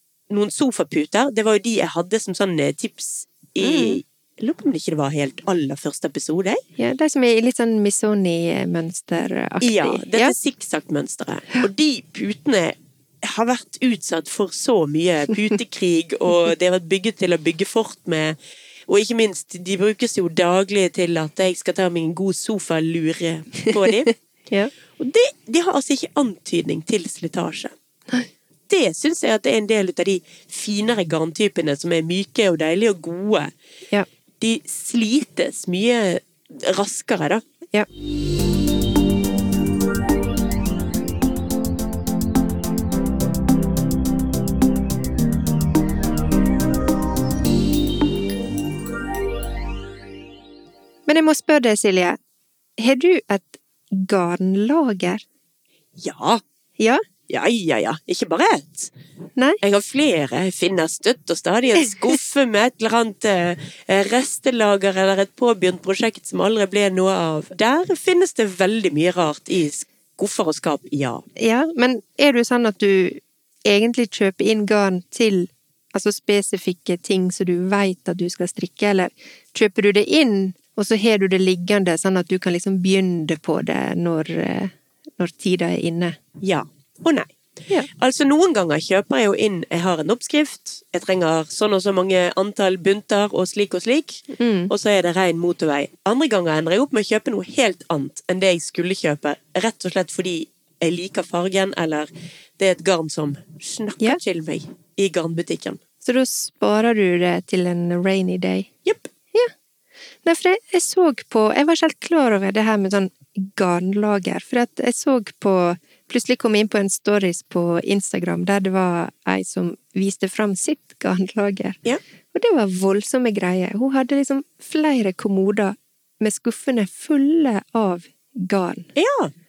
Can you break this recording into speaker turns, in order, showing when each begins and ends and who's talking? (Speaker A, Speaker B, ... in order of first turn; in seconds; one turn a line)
Speaker A: 0.3-6.6
Speaker B: 3.6-4.0
Speaker B: 6.8-10.3
Speaker A: 9.6-18.4
Speaker A: 18.9-24.1
Speaker A: 25.0-27.7
Speaker A: 28.7-33.5
Speaker A: 34.4-37.4
Speaker B: 51.1-52.2
Speaker B: 52.8-55.2
Speaker A: 56.0-56.4
Speaker B: 56.8-57.0
Speaker A: 57.3-58.9
Speaker A: 59.6-71.2
Speaker B: 71.4-86.2
Speaker A: 86.4-87.3
Speaker A: 87.9-105.8
Speaker B: 94.3-94.7
Speaker B: 106.0-108.7
Speaker A: 108.8-109.1
Speaker B: 110.2-121.8
Speaker B: 122.3-128.9
Speaker A: 128.9-129.3